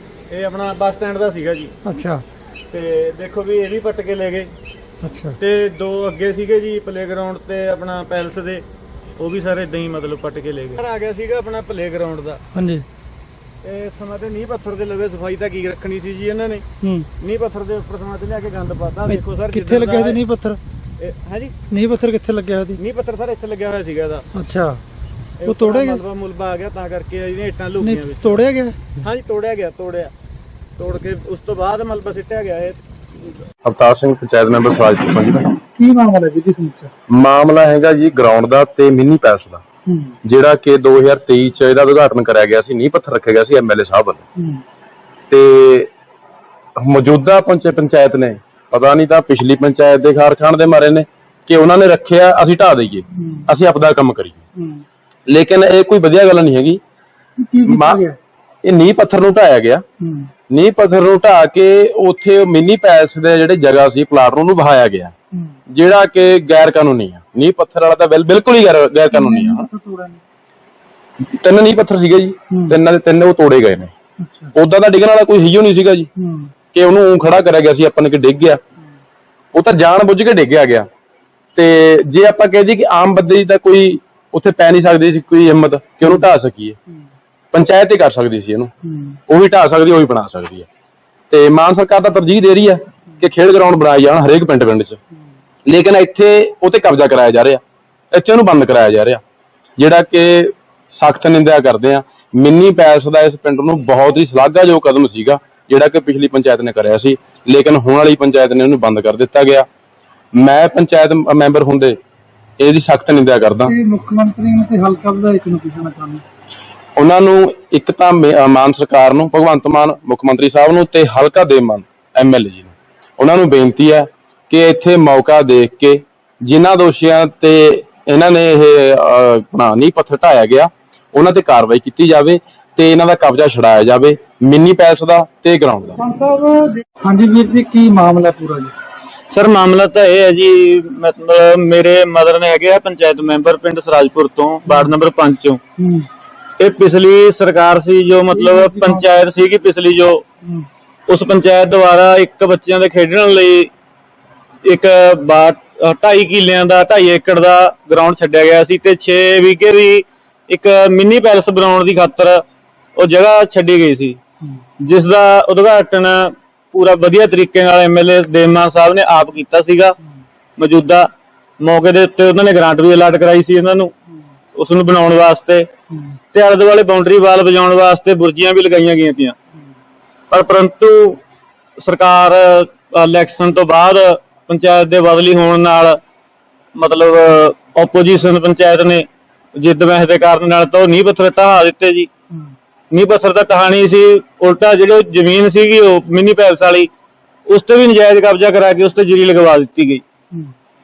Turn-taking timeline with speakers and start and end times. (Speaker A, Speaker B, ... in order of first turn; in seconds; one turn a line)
Speaker A: 0.3-1.7
Speaker B: 1.8-2.2
Speaker A: 2.7-4.5
Speaker B: 5.0-5.4
Speaker A: 5.4-8.6
Speaker A: 9.2-12.4
Speaker B: 12.5-12.8
Speaker A: 13.6-16.6
Speaker A: 17.2-20.2
Speaker B: 19.6-20.6
Speaker A: 21.0-21.5
Speaker B: 21.7-22.8
Speaker A: 22.8-24.3
Speaker B: 24.3-24.8
Speaker A: 25.4-30.1
Speaker B: 25.5-26.0
Speaker B: 27.8-28.8
Speaker A: 30.8-33.3
Speaker C: 33.6-35.5
Speaker B: 35.8-36.9
Speaker C: 37.1-39.6
Speaker B: 39.9-40.1
Speaker C: 40.2-44.2
Speaker B: 44.4-44.6
Speaker C: 45.3-45.9
Speaker C: 46.8-54.4
Speaker B: 53.1-53.5
Speaker B: 54.5-54.8
Speaker C: 55.3-56.8
Speaker B: 57.4-58.2
Speaker C: 57.7-58.0
Speaker C: 58.6-59.8
Speaker B: 60.0-60.3
Speaker C: 60.5-65.1
Speaker C: 65.7-69.7
Speaker B: 69.1-70.2
Speaker C: 71.4-73.9
Speaker B: 72.5-72.8
Speaker B: 74.2-74.5
Speaker C: 74.5-76.1
Speaker B: 76.2-76.5
Speaker C: 76.7-78.6
Speaker C: 79.5-80.9
Speaker C: 81.5-86.8
Speaker C: 87.5-88.7
Speaker B: 88.8-89.1
Speaker C: 89.3-90.7
Speaker C: 91.3-95.0
Speaker C: 95.7-99.2
Speaker C: 99.8-109.7
Speaker C: 110.3-112.0
Speaker C: 112.6-113.7
Speaker B: 113.6-116.2
Speaker C: 117.0-136.0
Speaker B: 136.0-138.7
Speaker A: 139.3-145.6
Speaker B: 144.6-144.9
Speaker B: 145.8-146.1
Speaker A: 146.6-150.2
Speaker B: 148.3-149.3
Speaker A: 151.1-153.7
Speaker A: 154.7-162.4
Speaker A: 163.0-164.2
Speaker A: 164.8-169.9
Speaker A: 170.6-171.1
Speaker A: 171.6-173.9
Speaker A: 174.6-175.7
Speaker A: 176.3-179.3
Speaker A: 180.3-181.2
Speaker A: 181.8-186.0
Speaker A: 186.8-189.1
Speaker A: 189.6-192.1
Speaker A: 192.9-196.9
Speaker A: 197.5-200.0